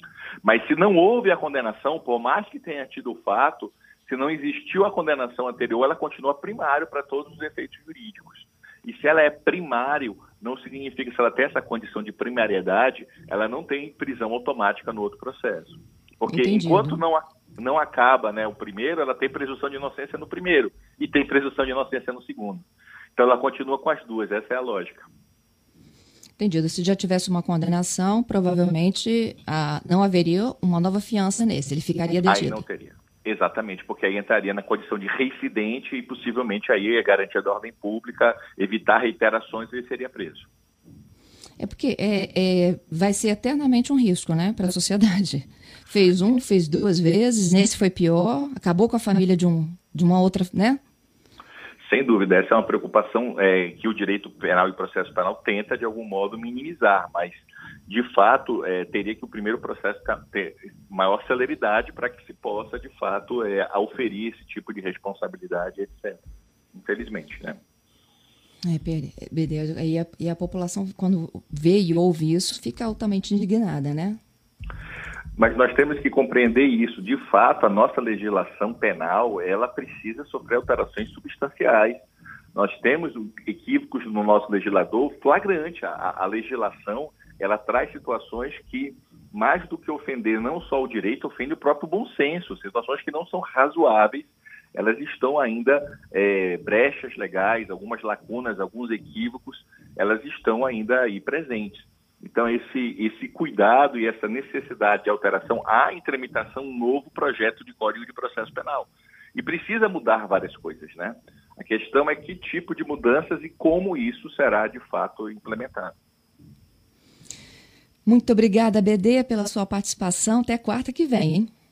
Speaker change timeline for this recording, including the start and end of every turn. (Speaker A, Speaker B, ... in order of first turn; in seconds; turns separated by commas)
Speaker A: 0.4-25.1, Speaker B: 16.2-17.0, Speaker B: 26.4-32.6, Speaker A: 32.2-40.5, Speaker B: 41.6-50.8, Speaker A: 51.8-66.2, Speaker A: 66.8-67.6, Speaker B: 68.7-74.2, Speaker A: 75.4-115.9, Speaker B: 118.0-121.5